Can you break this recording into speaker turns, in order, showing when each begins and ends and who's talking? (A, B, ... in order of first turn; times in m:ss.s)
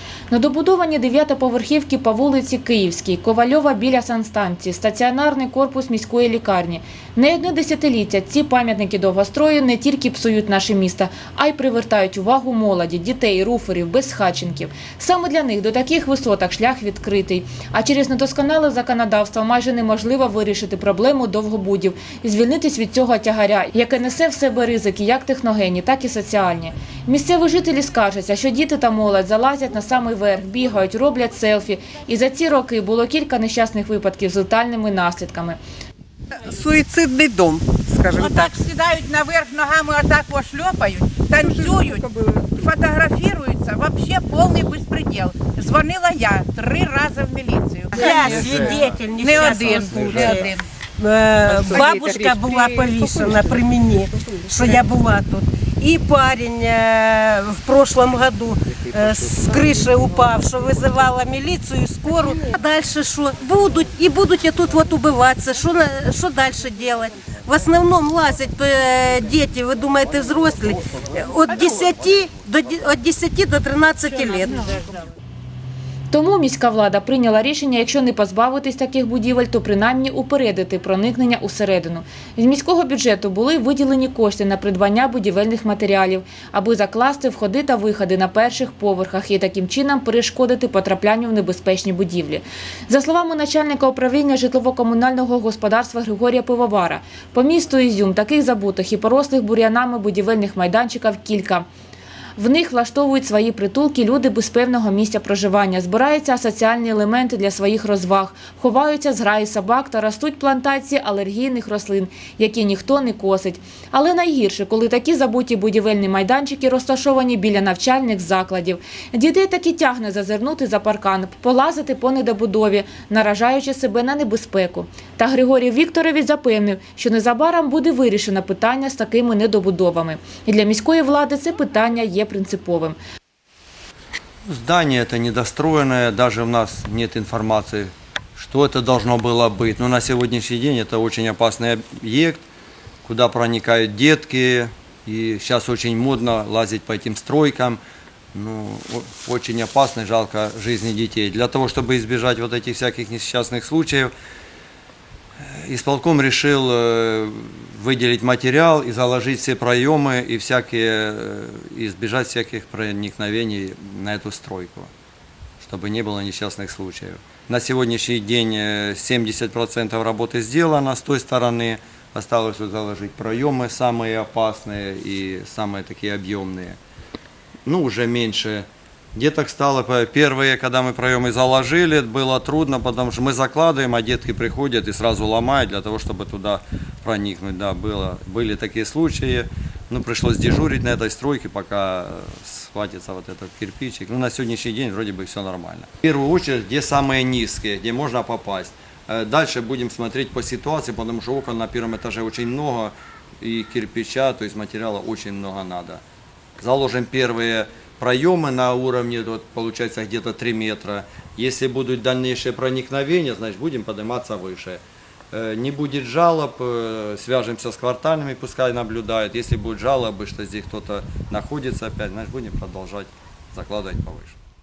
0:00.3-0:35.6 A
0:36.4-0:38.5 B
0:38.1-0:50.7 C
0:41.4-0:42.4 B
0:47.9-1:14.9 D
0:48.1-0:48.8 B
0:49.8-0:50.2 B
0:51.7-0:52.9 C
1:16.1-1:41.7 A
1:42.4-2:13.0 A
2:14.5-2:22.4 E
2:23.0-2:27.8 E
2:28.3-2:34.1 E
2:35.4-2:44.9 E
2:45.6-2:56.8 E
2:57.7-3:26.0 E
3:26.6-3:44.4 E